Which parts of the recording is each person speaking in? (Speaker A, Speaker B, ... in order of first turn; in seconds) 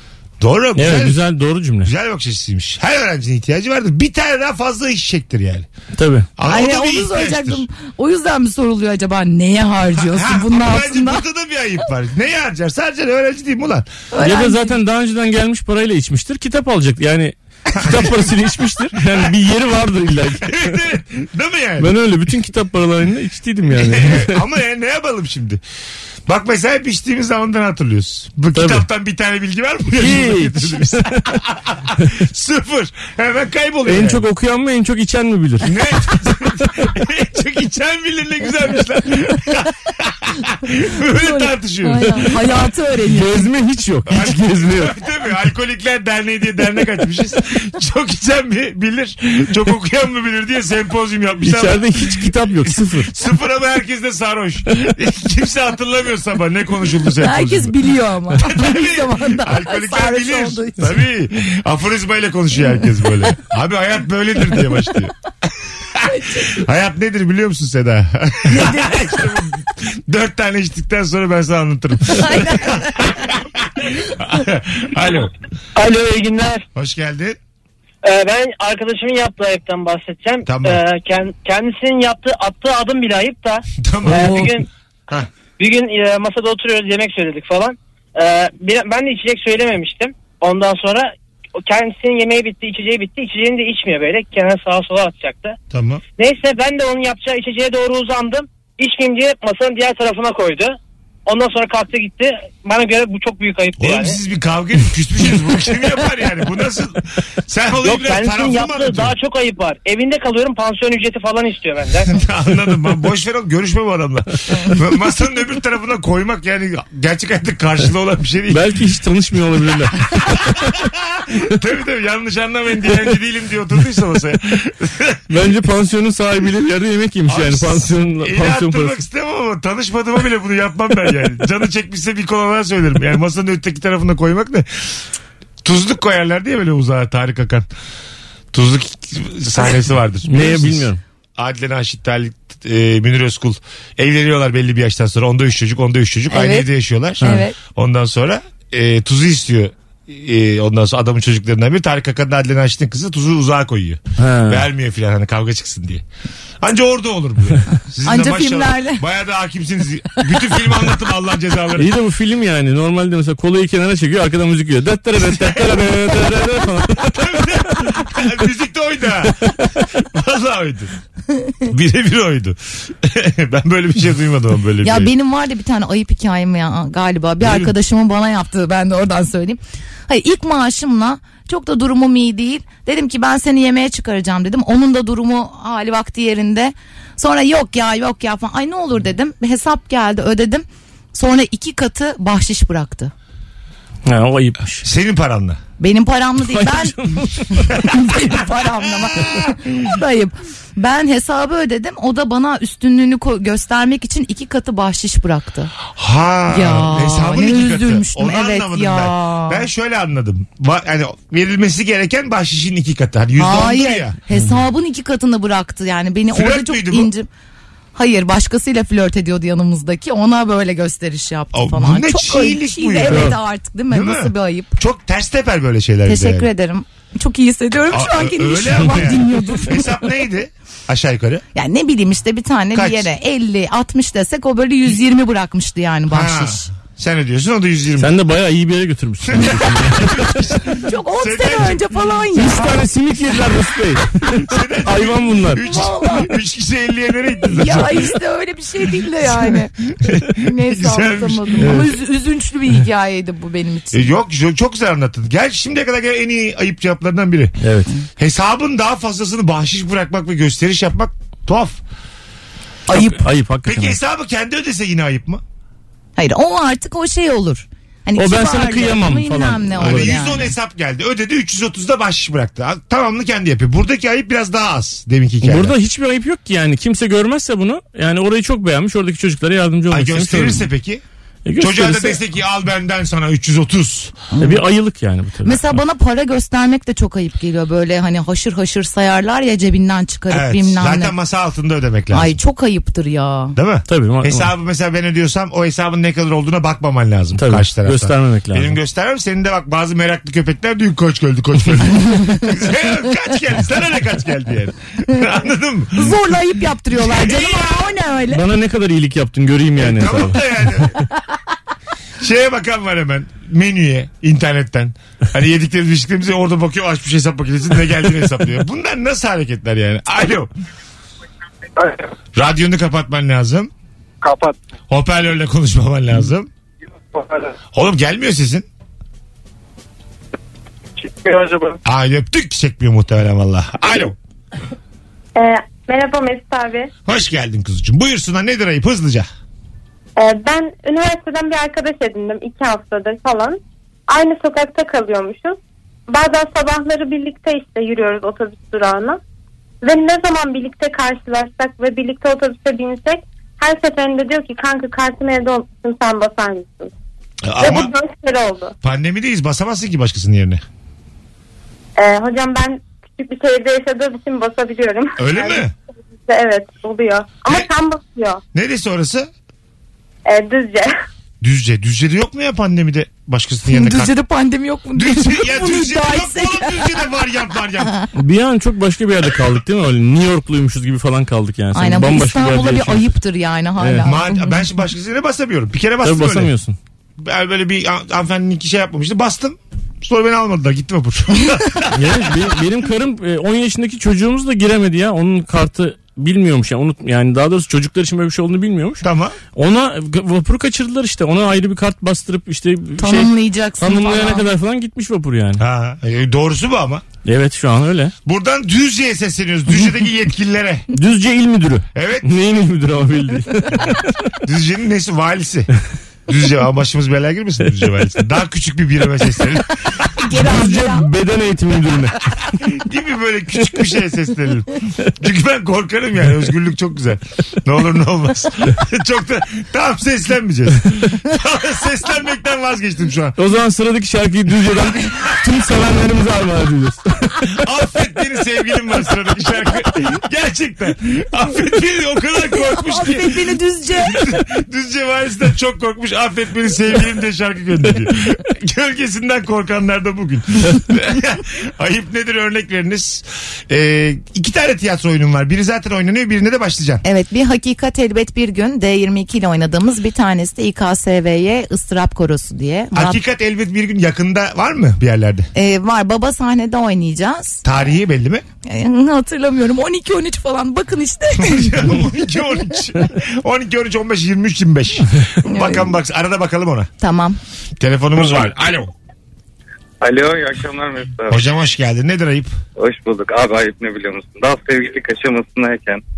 Speaker A: 0.4-1.2, 1.8-5.7, 6.4-7.7, 9.9-13.9, 17.7-18.3, 19.0-19.3, 20.4-21.9, 23.7-25.6, 26.3-34.2, 35.6-42.3, 44.1-57.7, 58.4-65.1, 66.4-75.3, 76.7-77.4, 80.5-80.8, 83.8-84.5, 95.7-96.0, 103.8-109.1, 112.1-118.6, 120.6-125.2, 127.3-134.7, 135.6-137.7, 138.5-156.0, 156.6-161.9, 165.2-166.3, 167.0-170.9, 171.7-175.1, 177.4-177.7, 194.8-195.6, 199.1-199.8, 205.8-214.2, 216.3-217.1, 221.5-223.4, 223.9-226.5, 227.9-231.4, 232.7-233.1, 236.1-238.1, 239.2-241.8, 244.3-248.2, 249.2-251.9, 253.9-257.5, 258.2-261.8, 263.6-265.4, 269.8-275.8, 279.9-281.0, 281.6-284.2, 290.3-292.4, 293.5-306.2, 306.9-307.9, 309.8-310.9, 312.2-320.5, 322.4-323.7, 324.9-326.5, 327.7-328.6, 331.8-334.1, 337.1-339.3, 357.4-357.9, 358.8-360.6, 365.2-365.7, 368.5-369.3, 371.4-374.1, 374.9-377.9, 384.0-386.5, 387.2-392.4, 399.0-399.4, 405.6-407.1, 408.2-410.8, 411.9-412.3, 414.4-415.7, 416.3-419.7, 422.6-433.4, 437.5-457.0, 462.9-465.5, 467.6-468.4, 471.4-476.9, 477.8-478.9, 481.3-482.5
Speaker B: 0.8-1.9, 5.9-6.3, 14.2-20.7, 21.8-24.4, 28.5-28.8, 29.9-31.3, 33.9-35.7, 43.1-44.9, 51.4-53.1, 118.5-120.5, 125.3-129.0, 140.3-141.0, 154.2-154.6, 161.7-167.4, 194.1-194.8, 196.4-197.7, 223.1-223.3, 238.0-240.5, 242.3-245.6, 251.6-251.9, 257.6-257.9, 262.9-264.0, 268.2-270.2, 275.4-280.7, 281.4-282.2, 284.4-285.8, 293.9-294.5, 297.4-298.8, 308.3-310.4, 378.1-383.1, 383.8-384.1, 386.0-386.8, 391.9-399.0, 399.5-405.6, 407.2-408.1, 410.9-414.1, 420.3-422.2, 433.4-437.4
Speaker C: 6.4-11.2, 14.1-14.7, 41.1-43.5, 57.2-60.9, 66.0-66.6, 68.5-69.2, 72.1-73.3, 146.3-146.7, 147.2-147.5, 158.0-159.0, 174.8-193.1, 195.8-205.7, 206.5-209.6, 213.4-217.3, 217.9-224.7, 226.1-229.9, 231.5-236.7, 240.8-242.8, 245.6-246.3, 247.5-249.7, 250.3-254.1, 262.9-263.2, 266.1-270.5, 284.3-284.6, 285.4-291.1, 292.1-293.6, 305.9-308.4, 373.7-377.0, 381.7-384.6, 403.0-404.5, 420.2-421.1, 442.5-444.4, 457.0-463.2, 465.5-467.6, 468.6-472.0, 475.4-475.9, 477.0-477.4
Speaker D: 75.8-76.6, 78.0-84.7, 85.6-95.6, 96.2-104.2, 107.8-112.1
Speaker E: 335.4-336.9, 340.2-345.6, 346.1-349.2, 349.8-356.9, 357.6-358.7, 362.0-365.6, 366.3-368.4, 370.2-370.9
Speaker F: 480.0-481.4, 482.8-486.0